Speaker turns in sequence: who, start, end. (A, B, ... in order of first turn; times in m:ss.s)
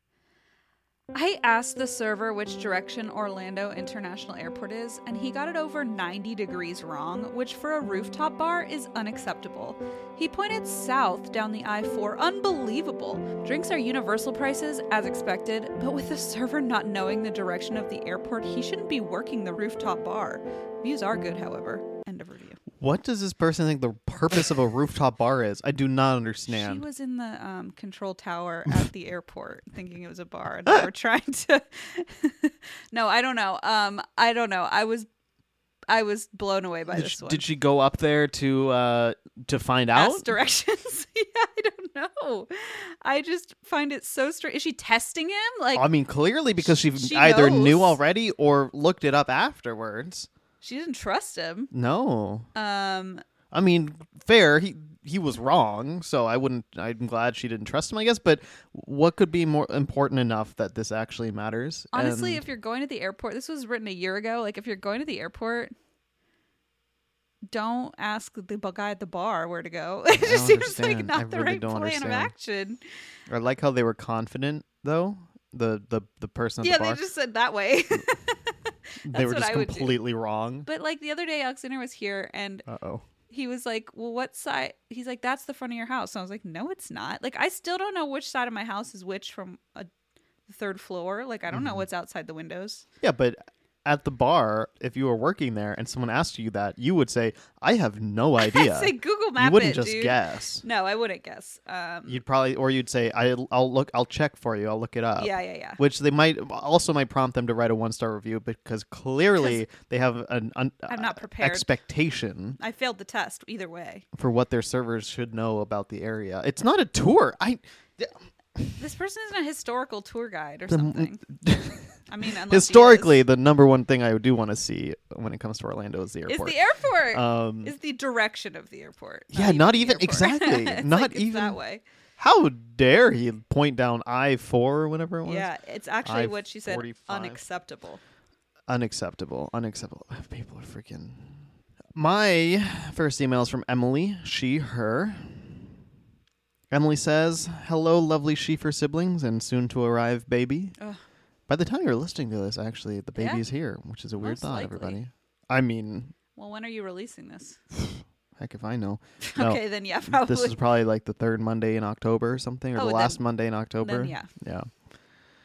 0:01.1-0:22.6 A
0:22.8-0:26.9 B
0:26.5-0:35.1 A
0:35.9-0:37.5 A
0:36.9-0:40.3 B
0:39.9-0:45.9 A
0:45.8-0:50.3 B
0:46.7-0:48.0 A
0:50.6-0:51.7 A
0:51.7-0:52.5 B
0:52.6-0:53.2 A
0:53.5-1:02.4 B
1:01.9-1:05.7 A
1:07.5-1:12.8 A
1:10.2-1:12.3 B
1:13.3-1:17.0 B
1:16.6-1:20.0 A
1:19.0-1:20.7 B
1:20.7-1:22.7 A
1:22.7-1:23.0 B
1:23.3-1:29.9 A
1:30.5-1:32.8 A
1:31.5-1:31.8 B
1:33.0-1:40.6 B
1:38.4-1:42.2 A
1:42.1-1:52.6 B
1:45.2-1:45.8 A
1:49.4-1:49.6 A
1:50.9-1:51.7 A
1:52.6-1:54.0 A
1:54.2-1:58.7 B
1:58.8-2:01.2 A
2:00.7-2:01.8 B
2:02.1-2:03.2 A
2:02.4-2:06.6 B
2:06.3-2:11.8 A
2:07.1-2:07.7 B
2:09.3-2:11.6 B
2:12.2-2:15.5 B
2:15.2-2:18.0 A
2:16.0-2:17.4 B
2:18.7-2:21.3 B
2:22.0-2:25.6 B
2:26.7-2:30.8 B
2:31.5-2:36.1 B
2:33.2-2:33.4 A
2:34.2-2:35.0 A
2:36.4-2:37.6 A
2:38.4-2:44.7 B
2:39.2-2:40.6 A
2:42.8-2:43.2 A
2:43.8-2:44.3 A